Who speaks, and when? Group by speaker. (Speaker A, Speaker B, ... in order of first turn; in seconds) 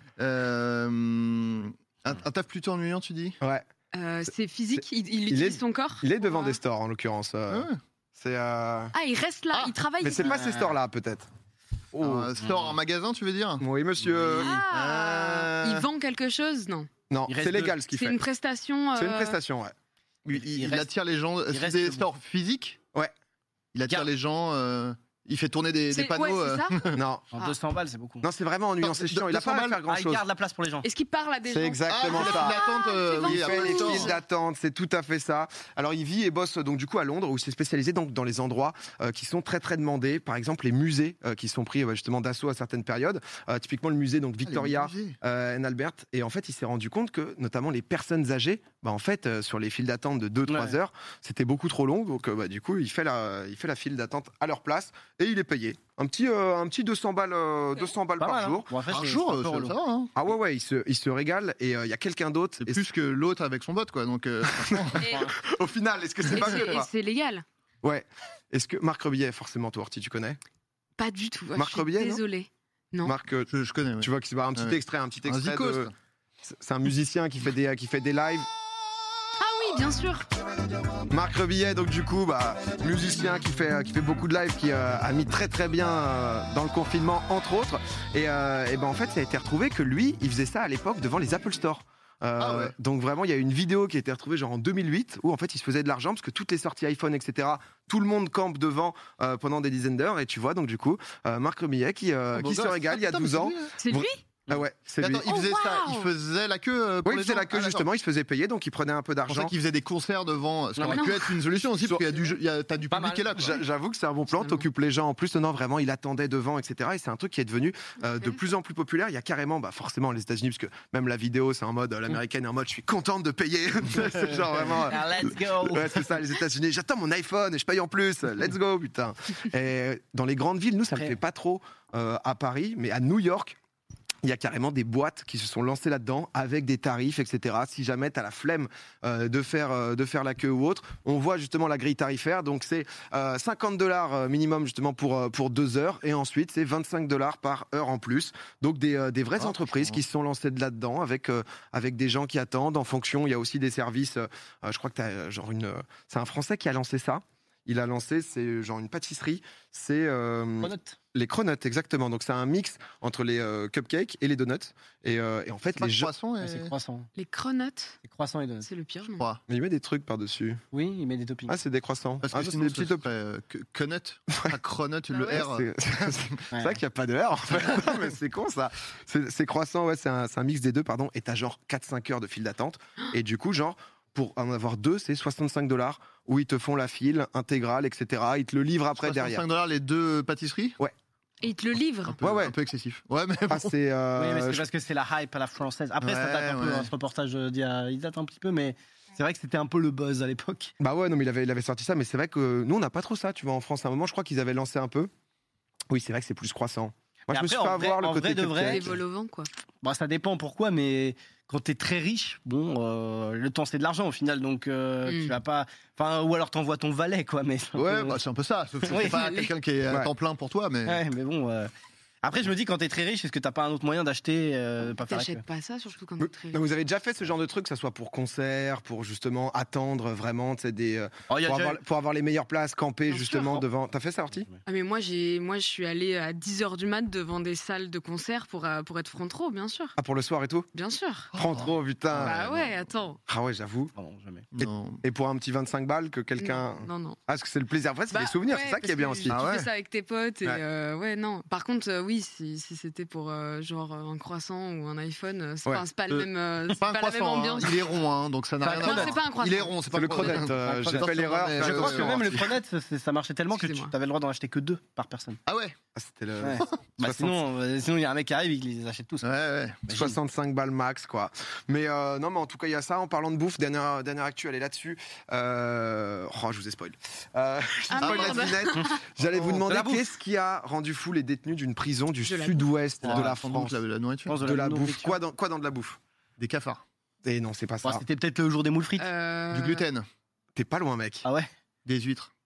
Speaker A: 0.2-3.4, 12.1-13.6, 14.7-15.8, 20.2-22.8, 23.7-26.9, 28.8-29.7, 32.0-32.4, 32.9-34.0, 44.5-45.1, 58.9-60.1, 62.7-65.1, 73.5-74.7, 75.2-75.9, 92.4-92.7, 102.5-103.7, 105.2-107.6, 109.3-113.5, 165.8-166.7, 172.3-175.5, 189.0-190.7, 192.2-193.7, 196.0-196.9, 217.8-221.0, 244.7-245.0, 249.3-249.5, 256.9-260.1, 261.0-262.0, 265.5-265.7, 269.2-269.8, 279.3-279.6, 283.1-284.4, 286.4-286.8, 289.5-289.9, 291.9-292.3
Speaker B: 3.4-3.6, 4.7-8.9, 10.0-11.3, 11.9-12.3, 13.6-14.5, 17.1-18.2, 18.9-19.7, 26.9-27.3, 28.2-30.2, 31.5-58.7, 60.1-62.8, 64.6-66.9, 67.8-70.4, 71.5-72.2, 73.0-73.5, 74.0-75.9, 76.4-78.5, 81.1-105.3, 107.0-109.5, 111.8-112.2, 113.3-133.6, 134.2-166.1, 169.5-170.6, 171.5-173.1, 175.1-189.4, 192.2-192.5, 193.5-194.7, 200.8-205.1, 205.9-209.0, 226.2-234.5, 239.9-240.7, 241.4-243.9, 244.6-249.4, 259.9-262.5, 265.9-267.4, 269.9-283.8, 284.4-286.0, 287.2-288.0, 290.5-291.2
Speaker C: 3.9-6.6, 8.9-10.3, 14.3-16.9, 17.9-19.4, 25.9-27.5, 30.8-34.1, 64.9-65.3, 66.3-67.4, 71.0-73.1, 75.5-75.7, 79.4-80.3, 102.4-103.2, 103.8-104.2, 105.0-106.2, 110.8-112.3, 114.3-114.6, 118.0-118.4, 167.1-168.0, 168.6-169.4, 175.1-175.6, 191.4-192.7, 208.7-209.5, 215.0-215.3, 218.9-219.5, 225.0-226.6, 233.1-233.5, 234.6-239.9, 240.7-241.4, 242.2-243.2, 246.4-247.2, 248.1-262.0, 263.5-263.9, 277.9-279.1, 282.2-283.6, 289.0-290.0
Speaker D: 10.2-10.7, 12.4-12.7, 17.3-17.8, 20.3-20.9, 21.5-22.1, 27.3-28.3, 29.8-30.9, 50.5-50.8, 58.2-59.8, 65.0-65.3, 110.8-111.1, 112.9-113.5, 124.7-126.1, 130.9-131.2, 149.4-150.0, 160.6-160.9, 166.4-167.1, 168.0-168.7, 170.7-171.6, 176.5-176.8, 194.2-200.7, 207.3-209.0, 209.8-218.2, 218.8-219.5, 220.8-221.7, 222.2-225.4, 231.3-231.8, 243.9-244.5, 258.8-259.1, 260.5-265.4, 266.4-269.2, 269.9-270.2, 279.6-280.1, 283.0-283.3, 284.3-285.2, 287.8-289.1, 291.2-291.5